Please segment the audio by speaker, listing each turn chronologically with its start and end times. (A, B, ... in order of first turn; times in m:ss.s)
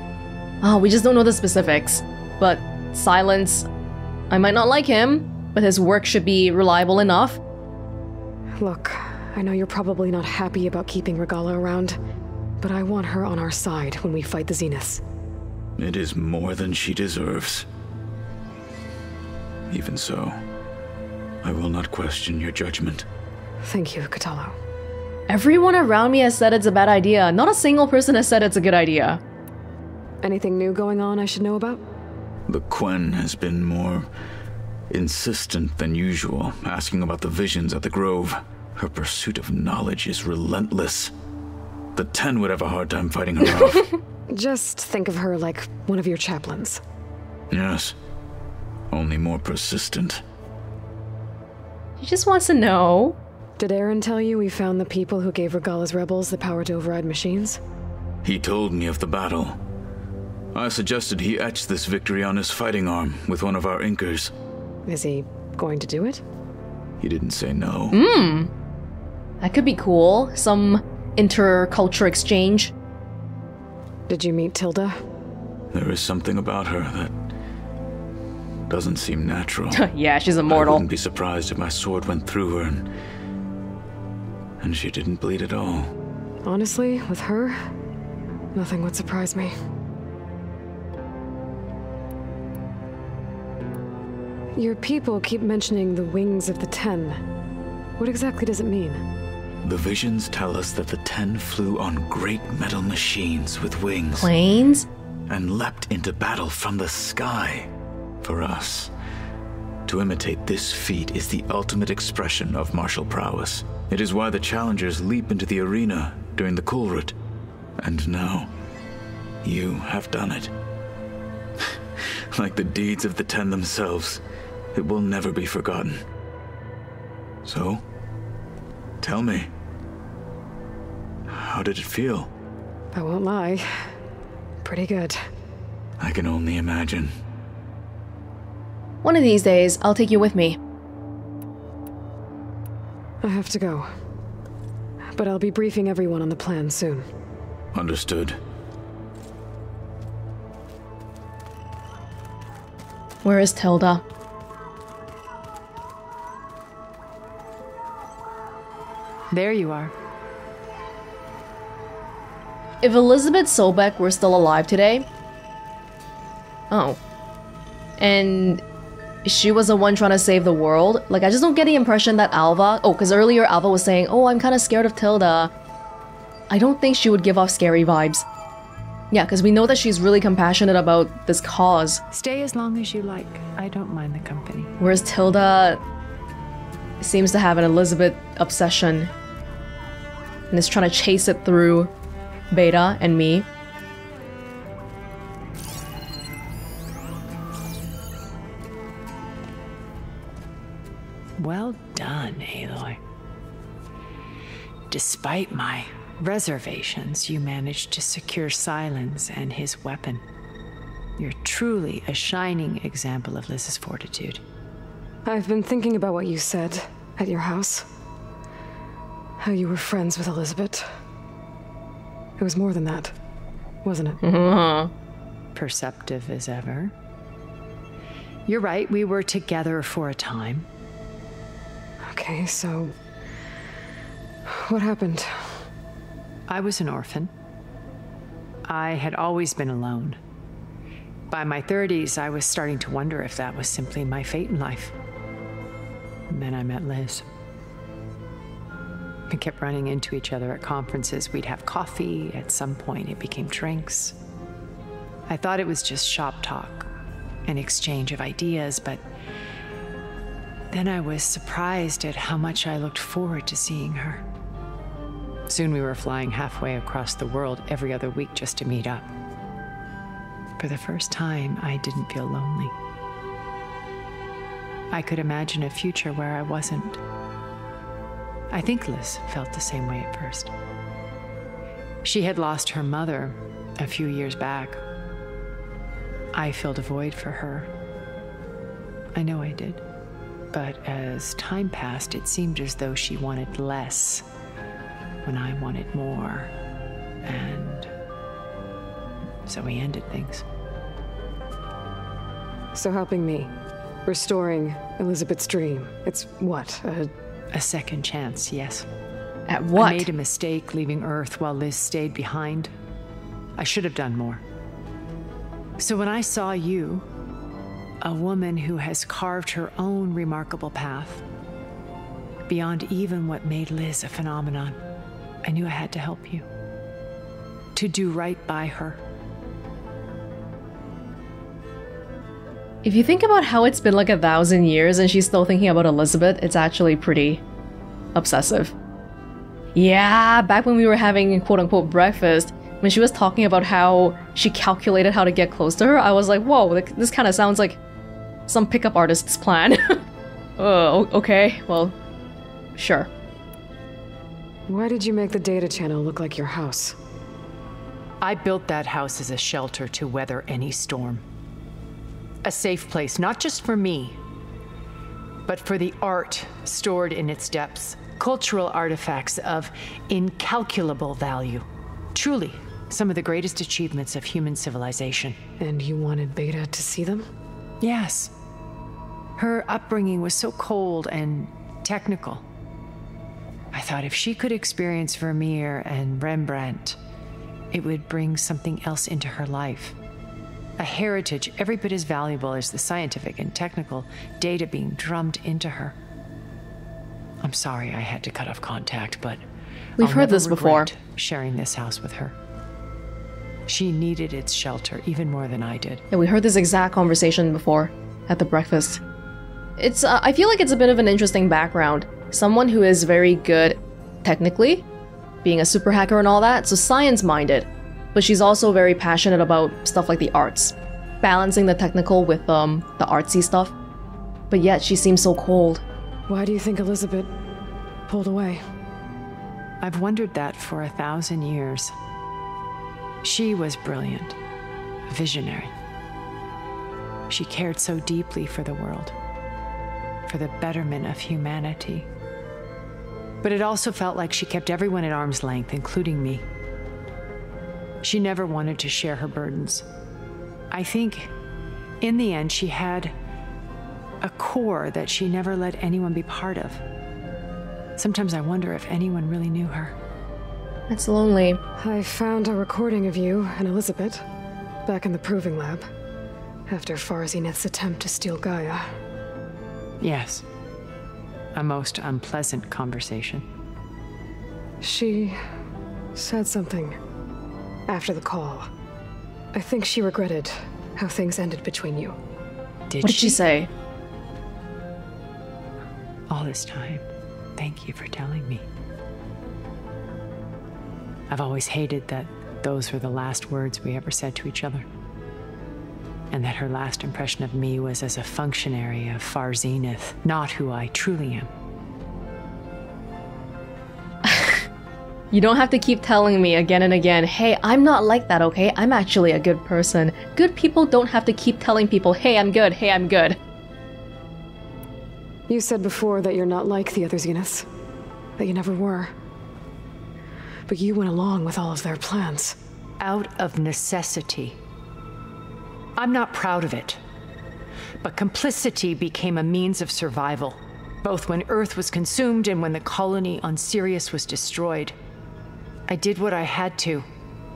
0:00.6-0:03.6 A
0:04.3-0:07.4 A
0:08.6-0:12.0 B
0:12.6-0:15.0 B
0:15.8-0:17.6 C
0:19.7-0:20.4 C
0:21.4-0:23.1 C
0:23.6-0:24.6 B
0:25.3-0:29.2 A
0:30.2-0:31.8 B
0:32.5-0:34.1 C
0:34.9-0:41.1 C
0:41.9-0:43.9 C
0:44.3-0:46.8 B
0:47.5-0:47.9 C
0:48.9-0:50.2 C
0:52.0-0:53.2 A
0:53.6-0:57.6 B
0:58.2-0:59.6 C
1:00.5-1:04.3 C
1:04.9-1:06.2 B
1:07.0-1:08.0 C
1:07.9-1:08.5 A
1:09.4-1:12.7 A
1:14.1-1:15.0 B
1:15.7-1:17.1 C
1:18.7-1:19.9 C
1:19.7-1:20.8 A
1:20.5-1:22.9 C
1:24.6-1:25.9 C
1:26.4-1:27.6 B
1:28.5-1:29.5 B
1:34.6-1:37.2 B
1:38.0-1:39.0 B
1:39.6-1:44.3 C
1:44.2-1:44.9 A
1:45.3-1:47.7 C
1:48.2-1:48.9 C
1:49.8-1:57.2 C
1:57.8-1:58.5 C
1:59.4-2:00.5 C
2:02.3-2:04.2 C
2:04.7-2:06.0 C
2:07.4-2:07.8 C
2:09.0-2:09.5 C
2:11.3-2:12.3 C
2:12.9-2:13.9 B
2:14.6-2:15.2 B
2:16.0-2:17.1 C
2:19.0-2:20.6 A
2:23.2-2:23.9 B
2:25.1-2:27.1 B
2:27.7-2:28.4 C
2:33.2-2:34.0 A
2:39.3-2:39.9 D
2:42.8-2:45.1 A
2:46.7-2:47.0 A
2:48.0-2:48.6 A
2:49.2-2:55.5 A
2:56.5-2:58.2 A
2:59.1-3:02.0 A
3:02.1-3:04.7 D
3:04.8-3:05.8 A
3:07.0-3:09.1 A
3:10.5-3:11.9 A
3:12.5-3:13.4 A
3:21.4-3:23.0 D
3:24.9-3:30.2 D
3:31.2-3:34.4 D
3:35.2-3:37.9 B
3:39.4-3:40.9 B
3:42.4-3:43.2 B
3:43.8-3:44.2 B
3:44.2-3:44.9 A
3:45.6-3:46.9 D
3:48.5-3:50.7 D
3:52.0-3:52.9 B
3:54.4-3:55.6 B
3:56.5-3:57.3 D
3:58.7-4:00.2 D
4:01.3-4:04.9 D
4:06.3-4:07.2 D
4:09.3-4:14.2 D
4:15.3-4:16.9 D
4:17.4-4:19.0 D
4:20.7-4:24.2 D
4:25.5-4:29.1 D
4:30.6-4:32.7 D
4:34.9-4:37.0 D
4:38.5-4:40.5 D
4:42.0-4:44.8 D
4:46.3-4:47.7 D
4:49.2-4:49.8 D
4:50.5-4:54.3 D
4:55.2-4:56.5 D
4:57.2-4:57.9 D
4:59.4-5:00.4 D
5:02.7-5:03.5 B
5:04.0-5:07.1 B
5:07.5-5:08.8 D
5:09.5-5:10.1 A
5:09.8-5:12.7 D
5:13.6-5:14.4 D
5:15.8-5:17.1 D
5:18.0-5:21.2 D
5:22.5-5:24.8 D
5:25.4-5:26.4 D
5:27.7-5:29.0 D
5:32.8-5:37.4 A
5:38.2-5:38.7 A
5:39.7-5:47.8 A
5:48.5-5:50.0 A
5:50.6-5:52.0 A
5:52.8-5:53.1 A
5:54.7-5:57.0 B
5:58.2-6:01.2 D
6:02.4-6:04.2 D
6:05.4-6:15.4 D
6:15.6-6:17.3 B
6:17.8-6:18.3 D
6:19.4-6:22.4 D
6:23.7-6:27.0 D
6:27.7-6:30.0 D
6:30.8-6:36.0 D
6:37.4-6:39.4 D
6:40.0-6:40.9 A
6:40.0-6:42.4 D
6:43.7-6:46.0 D
6:46.1-6:49.0 A
6:49.8-6:54.8 A
6:55.4-7:03.7 A
7:04.5-7:05.8 A
7:06.3-7:07.4 B
7:08.1-7:08.6 B
7:09.8-7:11.9 D
7:13.2-7:14.4 D
7:15.1-7:15.7 D
7:17.3-7:19.2 D
7:20.3-7:22.1 D
7:23.4-7:26.4 D
7:28.0-7:29.8 D
7:30.7-7:31.3 D
7:32.0-7:33.1 D
7:34.2-7:36.8 D
7:38.0-7:40.0 D
7:40.9-7:41.6 A
7:41.8-7:44.3 B
7:44.8-7:45.9 B
7:46.7-7:48.9 B
7:50.0-7:50.4 D
7:51.6-7:53.4 D
7:54.8-7:55.4 B
7:56.2-7:57.0 B
7:57.9-7:58.7 B
7:59.5-8:02.2 B
8:02.9-8:03.4 D
8:03.0-8:03.7 A
8:06.3-8:07.1 D
8:07.6-8:08.7 D
8:11.3-8:14.8 D
8:16.3-8:21.5 D
8:24.2-8:24.6 A
8:25.3-8:33.4 A
8:35.5-8:37.7 B
8:38.4-8:39.1 B
8:40.7-8:42.6 B
8:43.0-8:44.6 D
8:46.0-8:47.0 D
8:48.0-8:55.0 D
8:55.9-8:57.0 D